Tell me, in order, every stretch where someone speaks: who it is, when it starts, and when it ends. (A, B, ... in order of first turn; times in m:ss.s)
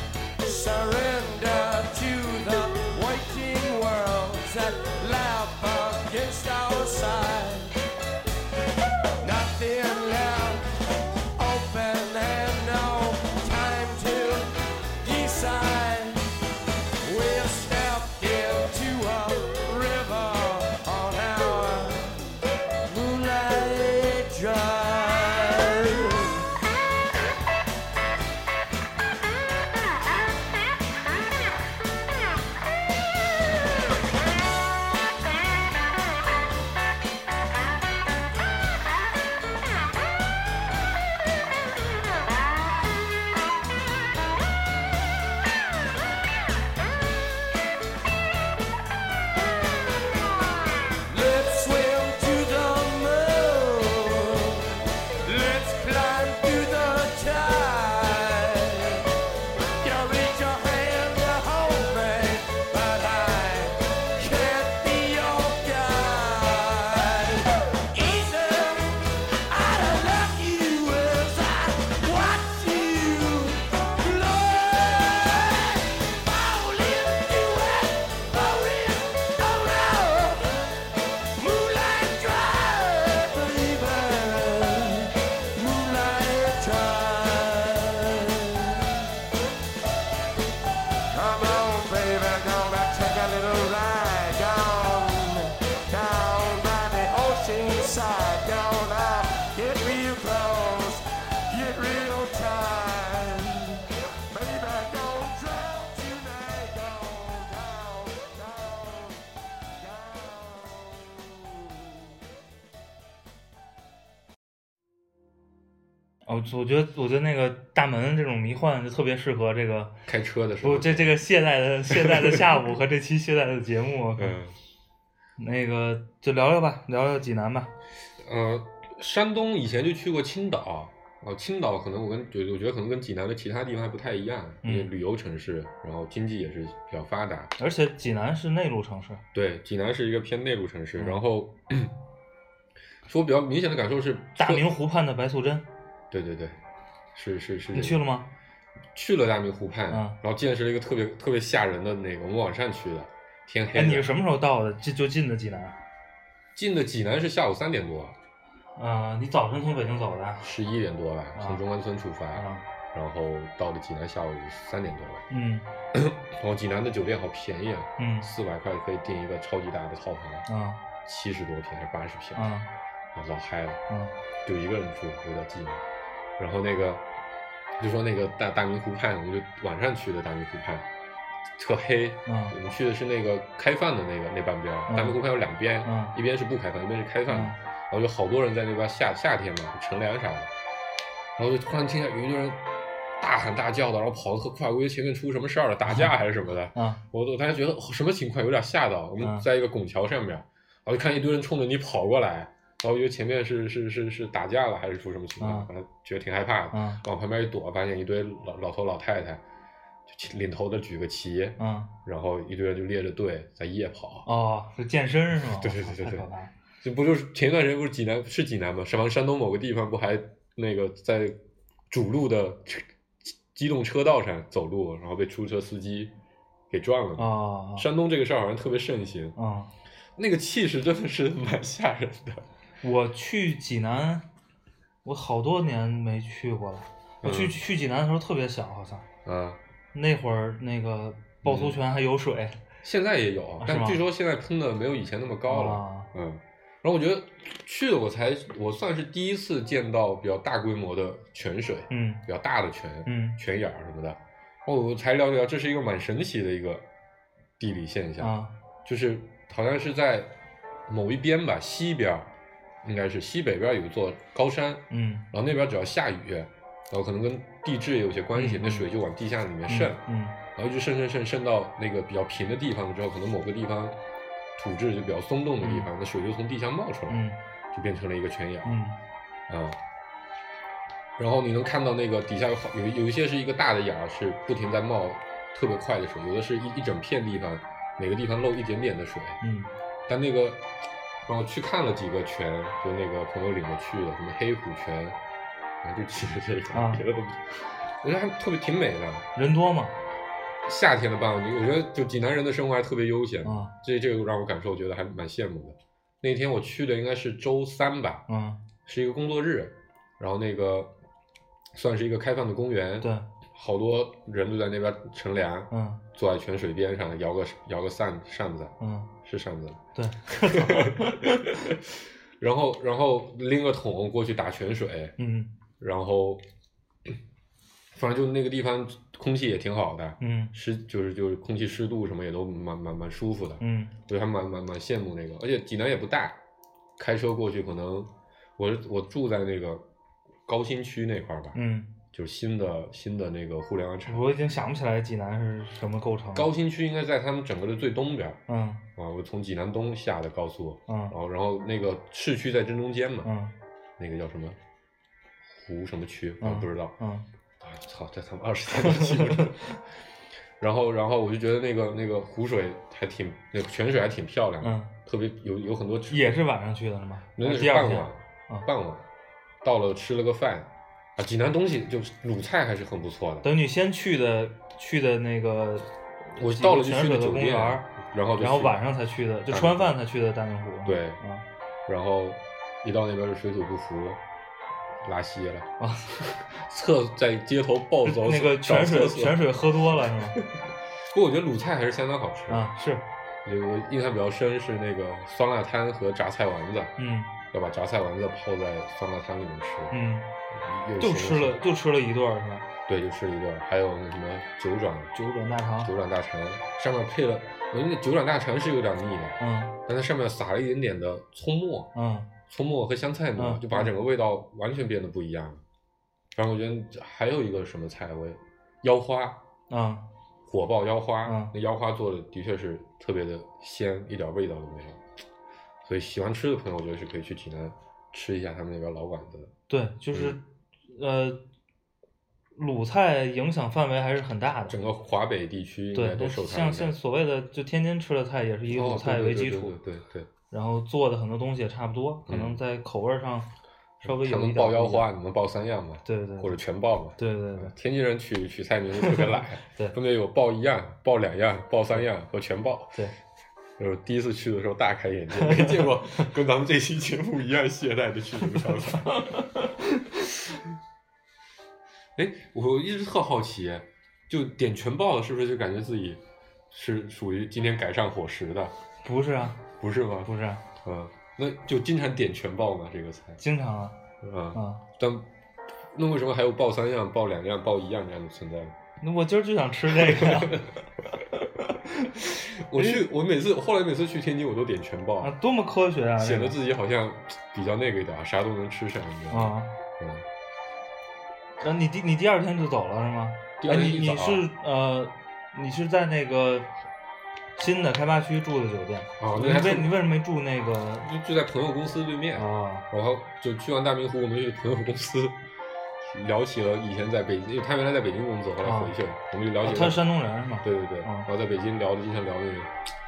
0:00.4-0:07.8 A
0:09.2-0:10.7 A
0:11.3-0:16.3 A
0:17.0-0:22.3 A
0:22.8-0:26.5 A
0:51.1-0:59.1 A
0:59.8-1:20.6 A
1:21.3-1:29.2 A
1:31.1-1:49.2 A
1:49.8-1:52.1 A
1:56.2-1:59.9 B
2:00.0-2:01.2 C
2:00.6-2:04.4 B
2:01.9-2:02.5 C
2:04.2-2:04.5 C
2:05.4-2:07.7 B
2:08.2-2:17.5 C
2:14.6-2:14.9 B
2:17.6-2:19.2 B
2:19.3-2:21.9 C
2:23.0-2:24.7 C
2:24.4-2:25.6 B
2:26.1-2:26.6 C
2:27.1-2:28.0 C
2:27.7-2:28.3 B
2:28.9-2:34.1 C
2:29.9-2:30.2 B
2:33.7-2:35.8 B
2:36.5-2:38.2 C
2:38.8-2:40.5 B
2:40.4-2:45.2 C
2:41.3-2:41.6 B
2:42.3-2:42.6 B
2:45.3-2:45.6 B
2:45.9-2:50.4 C
2:48.0-2:48.3 B
2:50.5-2:50.8 B
2:51.0-2:52.5 C
2:52.3-2:52.7 B
2:53.1-2:53.8 C
2:54.4-2:55.8 C
2:56.4-2:57.0 C
2:57.8-3:00.8 C
3:01.6-3:10.5 C
3:02.2-3:02.5 B
3:04.9-3:05.2 B
3:05.8-3:06.1 B
3:07.3-3:07.6 B
3:11.4-3:12.6 C
3:13.2-3:29.4 C
3:15.9-3:16.1 B
3:16.7-3:17.0 B
3:19.2-3:19.4 B
3:25.4-3:25.7 B
3:26.7-3:27.0 B
3:30.1-3:34.3 C
3:31.6-3:31.9 B
3:34.2-3:36.5 B
3:35.4-3:36.3 C
3:36.8-3:46.1 C
3:46.7-3:49.3 C
3:47.2-3:47.9 B
3:49.4-3:49.7 B
3:50.2-3:52.4 C
3:52.8-3:54.2 B
3:55.0-3:59.0 B
3:57.2-3:57.6 C
3:59.2-3:59.6 C
3:59.9-4:02.6 B
4:01.4-4:01.8 C
4:02.8-4:16.8 C
4:03.6-4:04.0 B
4:05.5-4:06.1 B
4:11.9-4:12.2 B
4:13.0-4:13.4 B
4:17.6-4:20.3 C
4:18.2-4:18.5 B
4:20.9-4:30.0 C
4:24.9-4:25.3 B
4:28.3-4:28.9 B
4:29.7-4:30.4 B
4:30.5-4:34.0 C
4:34.6-4:38.8 C
4:35.6-4:35.9 B
4:37.1-4:37.4 B
4:38.6-4:39.0 B
4:39.5-4:39.8 C
4:41.2-4:49.4 C
4:49.4-4:49.7 B
4:50.1-4:50.7 C
4:51.2-4:55.2 C
4:55.8-4:59.3 C
4:56.7-4:57.0 B
4:59.3-4:59.9 B
5:00.6-5:08.2 C
5:03.4-5:03.7 B
5:08.3-5:08.6 B
5:08.8-5:10.9 C
5:11.7-5:25.2 C
5:13.0-5:13.2 B
5:15.7-5:16.0 B
5:18.8-5:19.1 B
5:19.9-5:21.7 B
5:25.2-5:25.5 B
5:25.8-5:26.4 C
5:27.9-5:36.4 C
5:30.2-5:30.5 B
5:33.6-5:33.9 B
5:37.0-5:39.8 C
5:40.4-5:41.6 C
5:41.5-5:41.9 B
5:42.1-5:44.3 C
5:44.0-5:46.5 B
5:46.3-5:48.4 C
5:48.5-5:48.8 B
5:49.0-5:53.3 C
5:50.9-5:51.1 B
5:53.2-5:53.5 B
5:54.0-5:54.6 C
5:55.5-5:56.9 C
5:56.4-5:57.2 B
5:57.6-5:59.8 C
5:58.8-5:59.7 B
6:00.6-6:06.4 C
6:04.6-6:04.9 B
6:06.1-6:08.7 B
6:07.4-6:09.1 C
6:09.6-6:13.5 C
6:13.4-6:21.4 B
6:16.4-6:18.8 C
6:19.5-6:19.9 C
6:20.8-6:21.2 C
6:21.9-6:24.2 C
6:25.0-6:25.7 C
6:25.8-6:26.2 B
6:26.5-6:32.7 C
6:28.0-6:30.4 B
6:32.5-6:33.0 B
6:33.4-6:36.9 C
6:37.0-6:37.3 B
6:37.5-6:40.0 C
6:39.9-6:40.3 B
6:40.5-6:41.6 C
6:41.0-6:42.6 B
6:42.9-6:45.1 C
6:45.1-6:45.9 B
6:45.8-6:51.9 C
6:49.4-6:49.8 B
6:51.9-6:52.3 B
6:52.5-6:55.6 C
6:53.4-6:53.9 B
6:56.3-6:59.4 C
6:59.7-7:00.0 B
7:00.5-7:05.0 C
7:01.2-7:01.5 B
7:05.8-7:09.5 C
7:09.7-7:11.4 B
7:10.1-7:10.4 C
7:12.6-7:14.8 B
7:14.7-7:16.9 C
7:15.9-7:19.7 B
7:18.7-7:20.3 C
7:20.5-7:23.5 B
7:22.3-7:22.6 C
7:24.0-7:33.0 C
7:24.0-7:25.0 B
7:26.0-7:26.5 B
7:27.2-7:27.7 B
7:29.0-7:30.0 B
7:33.8-7:39.4 C
7:35.3-7:36.2 B
7:38.6-7:40.4 B
7:42.2-7:48.7 C
7:49.0-7:49.7 B
7:49.8-7:53.4 C
7:50.2-7:50.6 B
7:53.4-7:54.0 B
7:54.2-7:55.3 C
7:54.5-7:54.8 B
7:55.9-7:58.8 C
7:59.0-8:02.2 B
7:59.9-8:00.7 C
8:02.1-8:05.3 C
8:02.7-8:03.0 B
8:05.2-8:06.6 B
8:06.2-8:10.2 C
8:09.3-8:09.7 B
8:11.6-8:16.7 B
8:13.6-8:14.5 C
8:17.6-8:21.1 B
8:19.2-8:20.0 C
8:21.0-8:25.4 C
8:22.3-8:22.8 B
8:26.0-8:30.0 C
8:28.6-8:28.9 B
8:29.6-8:31.3 B
8:30.6-8:32.7 C